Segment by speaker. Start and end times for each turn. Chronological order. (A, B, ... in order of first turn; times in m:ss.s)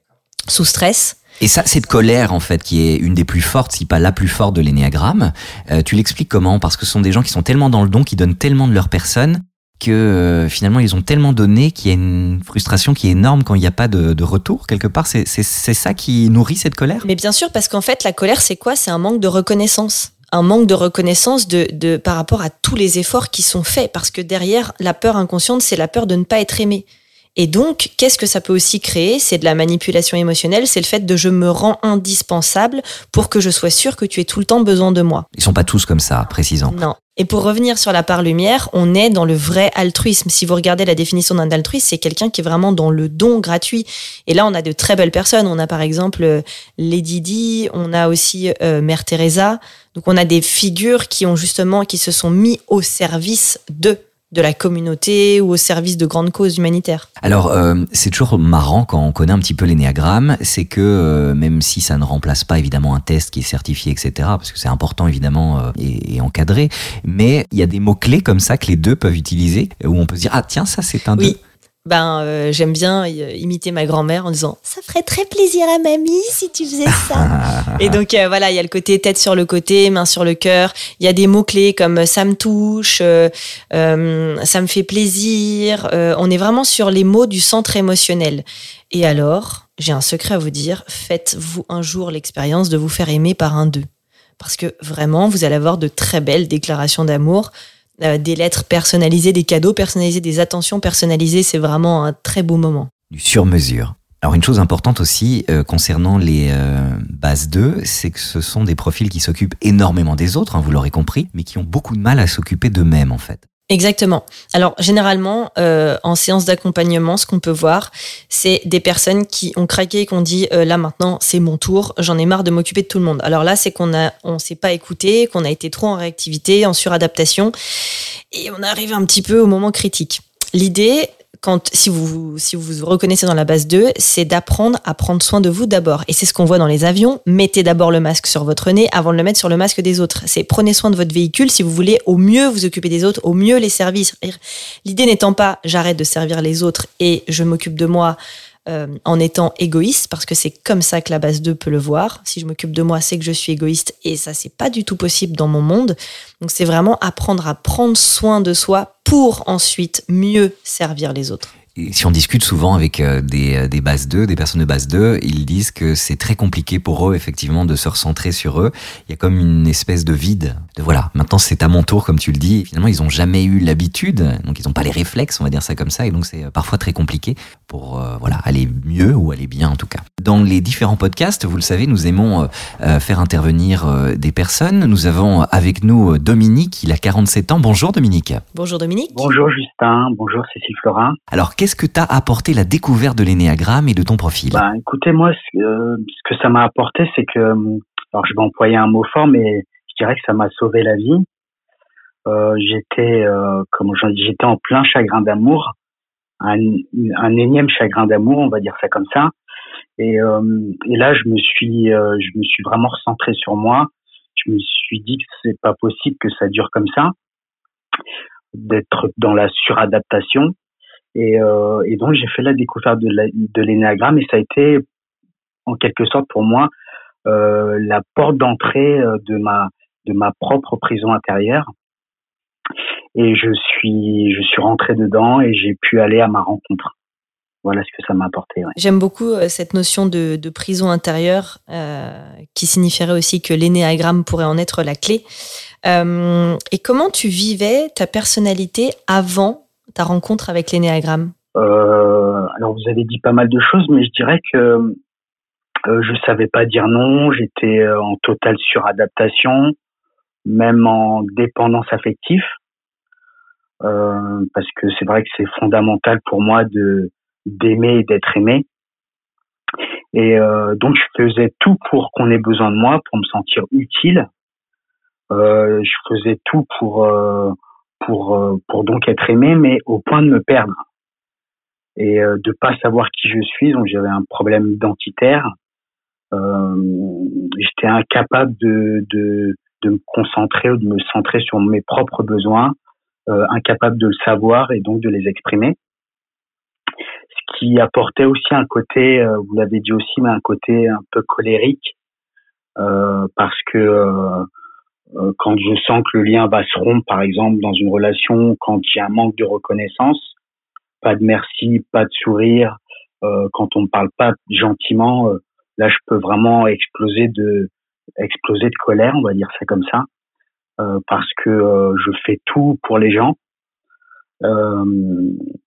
0:00.5-0:01.2 A
0:01.4-0:17.0 B
0:17.0-0:26.8 A
0:27.4-0:35.3 A
0:35.4-0:36.8 B
0:36.7-0:57.1 A
0:57.2-1:11.4 B
1:11.2-1:33.8 A
1:34.4-1:42.9 A
1:43.1-1:53.4 B
1:53.7-2:07.5 A
2:08.3-2:41.5 A
2:41.8-3:08.4 B
3:08.5-3:09.3 A
3:09.1-3:11.2 C
3:11.3-3:14.6 B
3:14.5-3:21.2 C
3:22.3-3:25.7 C
3:26.4-3:29.3 C
3:30.0-3:37.1 C
3:38.6-3:40.5 C
3:41.2-3:44.8 C
3:45.7-3:46.7 C
3:47.3-3:51.7 C
3:53.2-3:56.9 C
3:57.6-3:58.7 C
3:58.8-4:05.2 A
4:05.8-4:11.3 A
4:11.6-4:15.0 C
4:15.9-4:19.7 C
4:20.5-4:22.6 C
4:23.8-4:28.6 C
4:30.1-4:34.2 C
4:35.3-4:40.8 C
4:42.0-4:45.5 C
4:46.3-4:52.7 C
4:53.3-4:55.8 C
4:57.3-5:02.0 C
5:02.8-5:04.4 C
5:05.2-5:10.4 C
5:11.0-5:12.7 C
5:13.2-5:20.0 C
5:20.8-5:23.4 C
5:24.4-5:25.4 C